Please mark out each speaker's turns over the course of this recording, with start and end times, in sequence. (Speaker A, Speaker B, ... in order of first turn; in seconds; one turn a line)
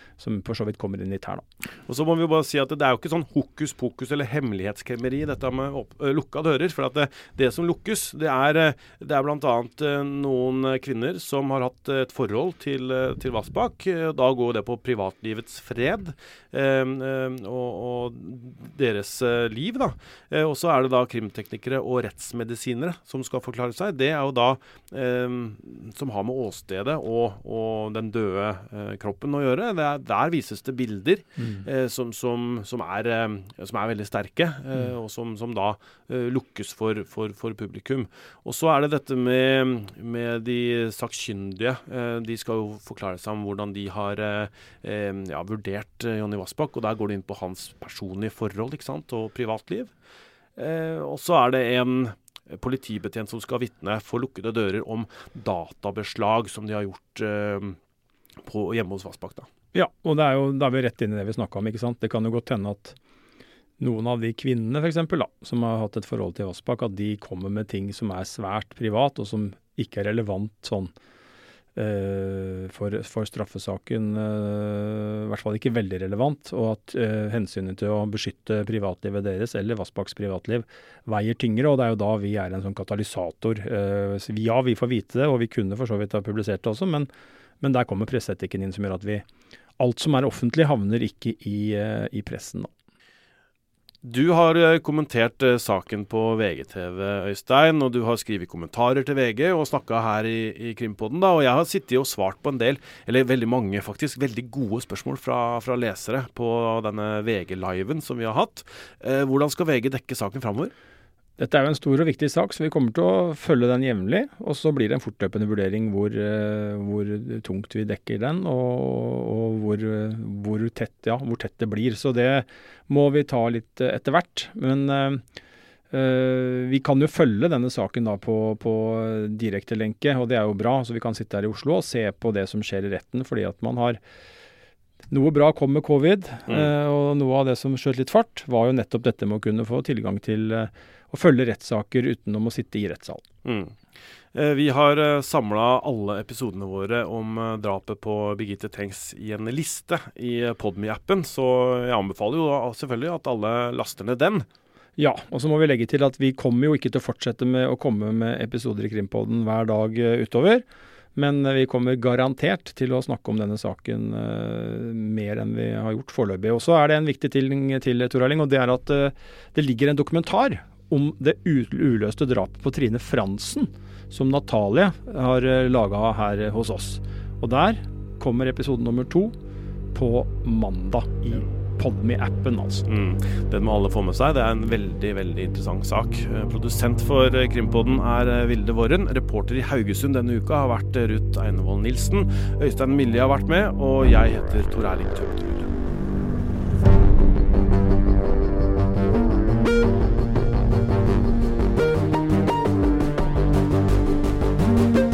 Speaker A: 0.2-1.4
Speaker B: 1.9-49.9
Speaker A: 31.4-31.6
Speaker B: 50.5-57.8
Speaker B: 58.4-59.5
Speaker A: 59.7-63.0
Speaker A: 63.8-70.9
Speaker A: 71.8-87.1
Speaker A: 87.6-89.2
Speaker A: 89.8-92.7
Speaker B: 94.0-110.7
Speaker A: 111.4-125.2
Speaker A: 125.9-134.0
Speaker A: 135.1-143.2
Speaker B: 143.4-143.7
Speaker B: 144.3-154.4
Speaker A: 155.0-160.6
Speaker A: 161.1-179.3
Speaker A: 179.9-182.9
Speaker B: 182.9-195.7